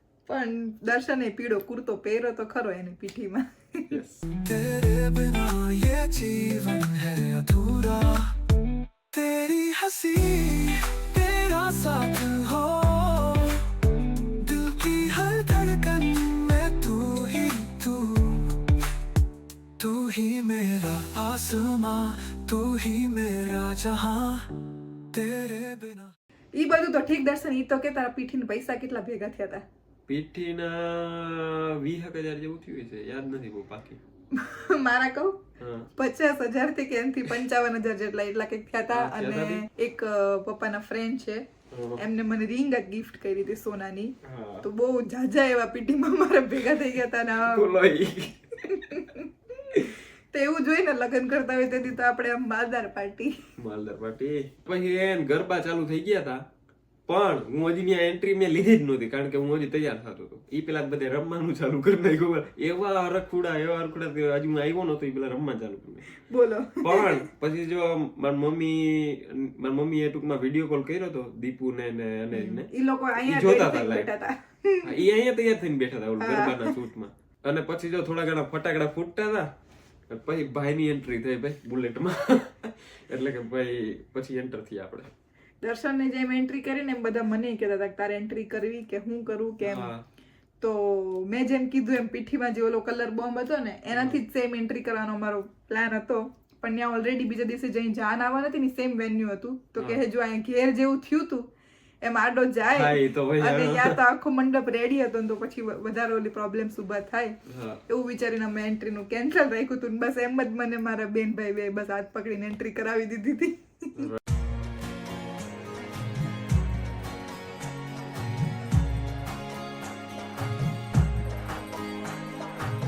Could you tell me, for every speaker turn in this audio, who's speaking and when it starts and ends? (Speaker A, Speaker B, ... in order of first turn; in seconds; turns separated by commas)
Speaker A: 0.3-3.9, Speaker B: 3.9-4.2, Speaker C: 4.4-8.3, Speaker C: 9.1-13.7, Speaker C: 14.4-18.6, Speaker C: 19.8-24.5, Speaker C: 25.1-26.1, Speaker A: 26.5-29.6, Speaker B: 30.1-34.0, Speaker A: 34.3-35.4, Speaker B: 35.6-35.9, Speaker A: 36.0-47.7, Speaker B: 38.9-39.7, Speaker B: 41.7-42.0, Speaker B: 44.2-44.7, Speaker B: 47.4-49.0, Speaker A: 48.7-49.3, Speaker A: 50.3-53.4, Speaker B: 53.6-56.5, Speaker B: 57.1-66.1, Speaker A: 66.3-67.2, Speaker B: 66.8-72.7, Speaker A: 72.3-75.0, Speaker B: 73.2-74.1, Speaker B: 74.8-79.5, Speaker A: 76.2-76.7, Speaker B: 80.1-85.1, Speaker A: 85.6-89.9, Speaker B: 89.6-90.0, Speaker A: 90.6-101.5, Speaker B: 93.9-94.2, Speaker B: 99.8-100.0, Speaker A: 102.0-107.4, Speaker B: 102.7-104.0, Speaker B: 107.5-107.8, Speaker A: 107.9-114.1